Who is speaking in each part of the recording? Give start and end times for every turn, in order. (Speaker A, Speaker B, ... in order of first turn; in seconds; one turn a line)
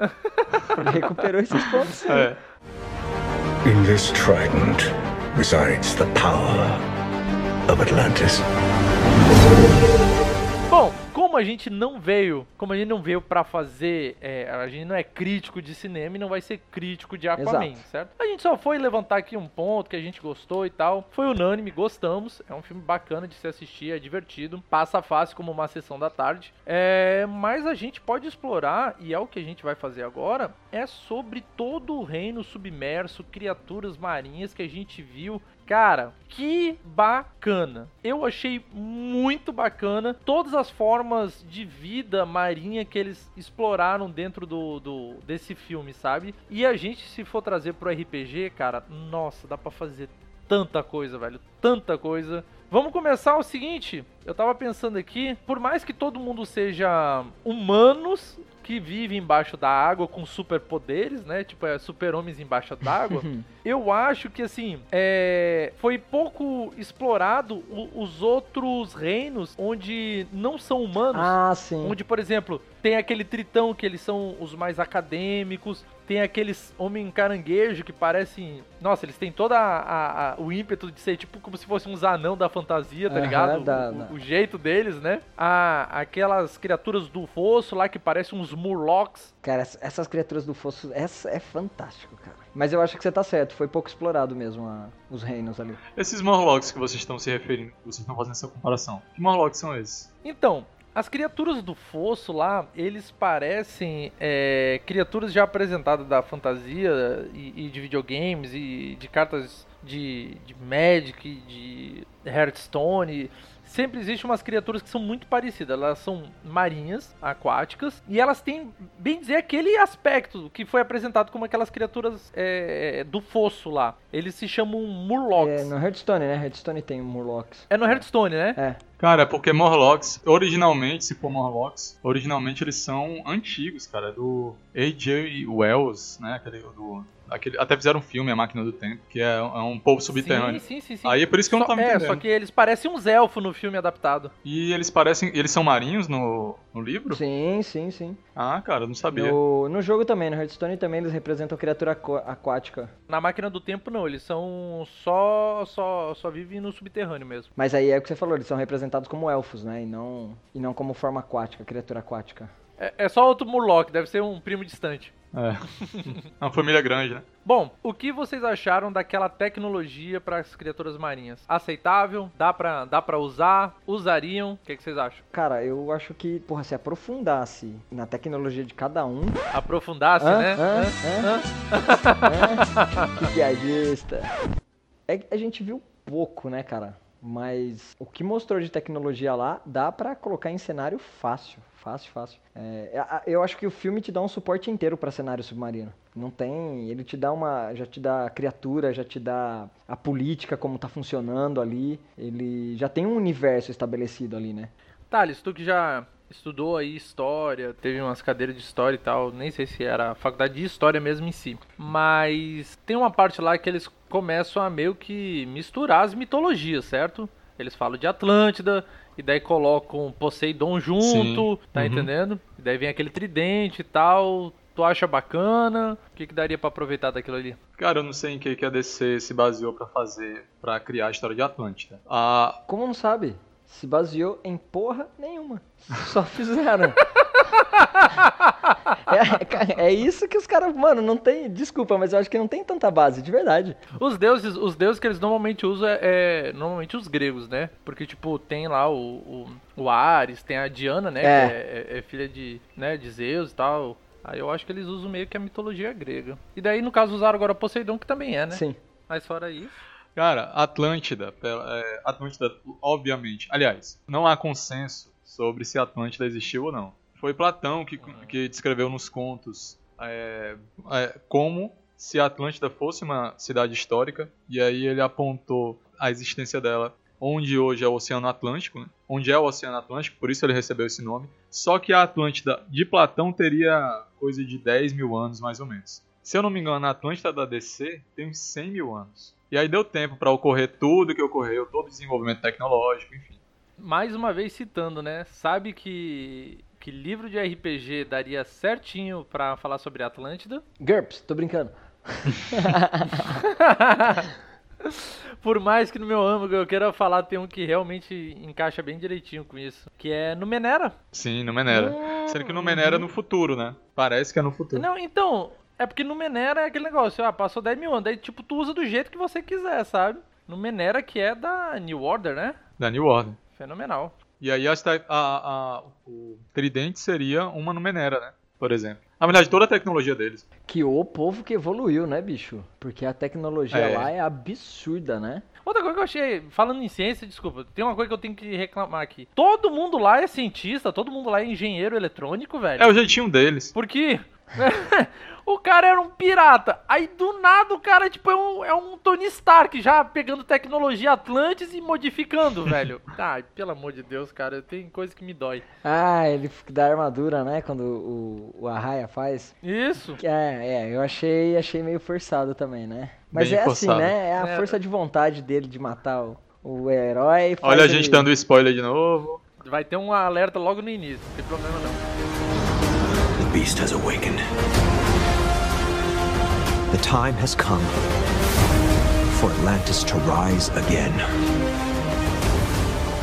Speaker A: 0.2-0.6
Speaker B: 0.8-2.3
Speaker C: 2.1-2.4
Speaker D: 3.6-6.8
Speaker D: 7.7-8.4
Speaker A: 10.7-89.3
Speaker B: 17.4-17.8
Speaker B: 63.0-63.5
Speaker B: 71.1-72.0
Speaker B: 83.1-84.1
Speaker B: 89.4-95.8
Speaker C: 96.0-100.1
Speaker A: 100.2-125.7
Speaker B: 125.3-128.0
Speaker A: 127.7-128.6
Speaker B: 128.5-128.8
Speaker C: 129.0-142.2
Speaker A: 140.1-144.3
Speaker C: 144.4-147.2
Speaker B: 147.1-148.2
Speaker C: 148.3-149.4
Speaker B: 149.1-152.9
Speaker A: 153.1-157.5
Speaker B: 157.6-162.5
Speaker A: 162.8-165.1
Speaker C: 165.3-167.2
Speaker A: 167.4-175.2
Speaker B: 175.3-179.4
Speaker A: 179.5-183.3
Speaker B: 180.2-181.3
Speaker B: 182.2-184.3
Speaker B: 185.1-204.7
Speaker A: 205.1-227.6
Speaker C: 221.0-222.1
Speaker C: 227.8-232.6
Speaker B: 232.7-237.0
Speaker A: 237.4-238.8
Speaker B: 239.0-243.8
Speaker A: 244.0-259.8
Speaker B: 251.2-251.6
Speaker B: 258.5-258.8
Speaker C: 260.1-293.4
Speaker A: 268.0-268.4
Speaker A: 293.8-300.6
Speaker B: 300.8-303.4
Speaker A: 303.3-304.3
Speaker A: 304.8-310.9
Speaker C: 311.1-314.8
Speaker B: 311.7-313.1
Speaker A: 314.7-322.6
Speaker C: 322.8-323.4
Speaker A: 323.6-324.1
Speaker C: 324.4-330.4
Speaker B: 330.7-335.4
Speaker C: 333.7-334.1
Speaker A: 335.6-343.0
Speaker C: 342.8-343.7
Speaker A: 343.7-355.6
Speaker B: 355.8-359.5
Speaker A: 359.6-360.2
Speaker B: 360.2-368.3
Speaker C: 363.3-364.1
Speaker A: 364.4-364.8
Speaker C: 367.6-369.4
Speaker A: 369.6-372.0
Speaker E: 373.4-374.4
Speaker E: 376.9-378.0
Speaker E: 379.3-381.2